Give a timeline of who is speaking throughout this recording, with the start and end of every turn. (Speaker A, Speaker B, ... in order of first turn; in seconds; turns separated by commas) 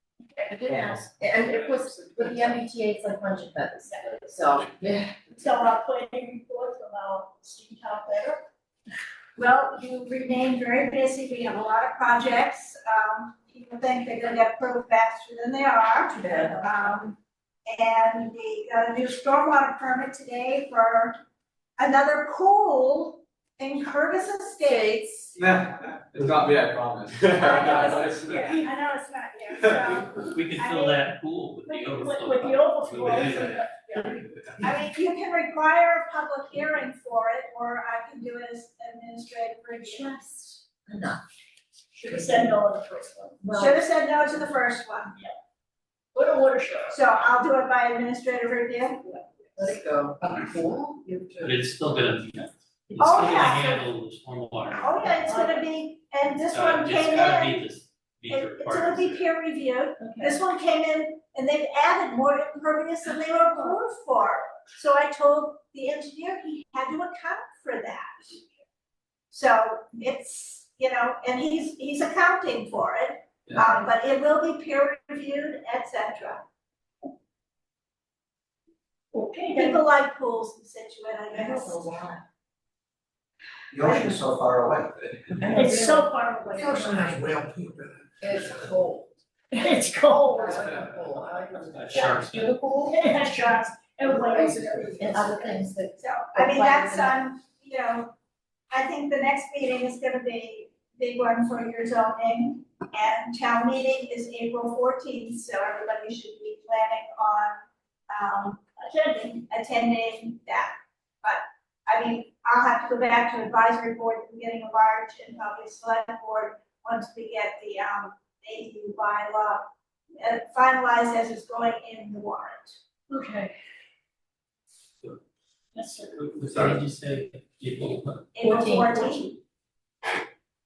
Speaker A: 0.5-5.2, Speaker B: 0.7-1.0, Speaker C: 5.3-8.4, Speaker D: 9.3-21.1, Speaker A: 16.1-16.6, Speaker D: 21.8-24.9, Speaker A: 24.6-25.4, Speaker E: 25.4-28.6, Speaker C: 27.4-28.7, Speaker D: 27.4-30.9, Speaker B: 30.0-34.7, Speaker C: 31.6-34.2, Speaker D: 34.6-40.1, Speaker A: 39.8-41.2, Speaker C: 41.9-43.4, Speaker A: 43.4-43.9, Speaker D: 43.5-45.1, Speaker C: 46.1-47.0, Speaker D: 46.9-49.2, Speaker A: 49.5-51.6, Speaker B: 51.4-54.9, Speaker D: 53.0-53.9, Speaker D: 54.7-57.6, Speaker C: 54.9-55.6, Speaker B: 56.5-59.2, Speaker D: 58.3-68.4, Speaker C: 60.0-60.4, Speaker D: 69.3-76.5, Speaker C: 79.1-79.8, Speaker D: 79.5-81.8, Speaker A: 81.3-82.2, Speaker F: 83.7-85.6, Speaker A: 85.4-86.1, Speaker C: 85.4-87.3, Speaker F: 86.5-88.0, Speaker A: 88.2-89.1, Speaker C: 89.5-90.8, Speaker A: 90.2-93.0, Speaker B: 91.7-92.5, Speaker C: 91.9-92.2, Speaker C: 92.9-95.6, Speaker A: 94.0-97.2, Speaker D: 96.0-98.1, Speaker D: 98.7-107.5, Speaker D: 108.1-108.6, Speaker C: 108.8-109.4, Speaker D: 109.2-119.7, Speaker D: 120.2-122.8, Speaker C: 123.1-123.5, Speaker C: 125.7-126.5, Speaker B: 126.2-128.2, Speaker E: 126.5-126.8, Speaker D: 128.3-129.3, Speaker A: 128.4-129.0